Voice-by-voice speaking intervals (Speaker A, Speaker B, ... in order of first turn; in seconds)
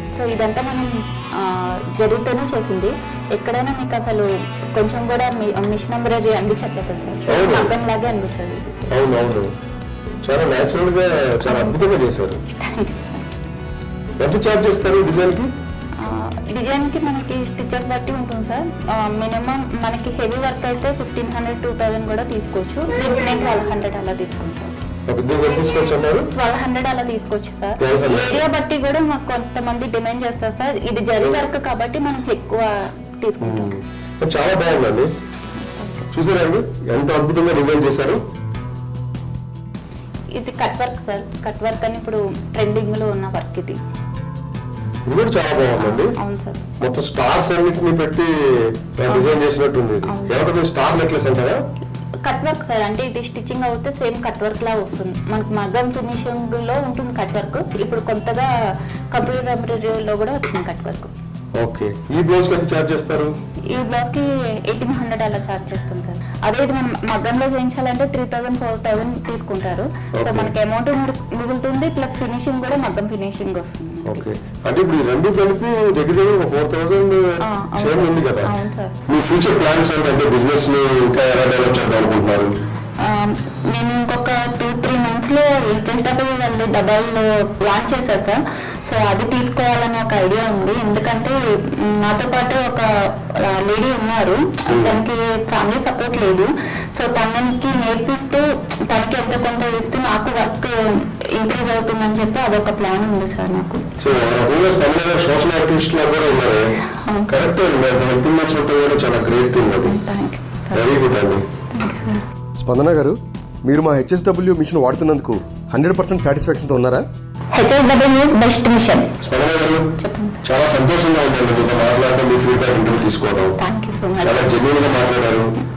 Speaker A: 0.1-8.9, 11.4-11.8, 12.6-13.3, 16.0-24.7, 26.3-33.7, 35.6-36.0, 40.4-43.8, 45.8-46.6, 49.1-49.4, 50.0-50.5, 52.2-58.5, 59.1-61.1, 63.7-74.3, 77.4-79.0, 83.0-103.8, 106.8-107.5, 109.8-110.9, 111.7-112.2, 117.5-119.1, 120.0-120.4, 123.6-124.6
Speaker B: 7.3-7.7, 8.9-9.5, 10.2-12.4, 14.2-15.5, 25.1-26.3, 27.8-28.4, 33.4-35.1, 36.1-38.2, 45.1-46.1, 46.8-51.6, 61.6-63.3, 70.2-70.5, 74.1-77.3, 77.8-78.5, 79.1-82.5, 94.7-95.0, 104.0-106.6, 107.3-110.0, 110.7-111.5, 119.2-119.9, 120.5-123.5, 124.2-125.5
Speaker C: 112.6-117.0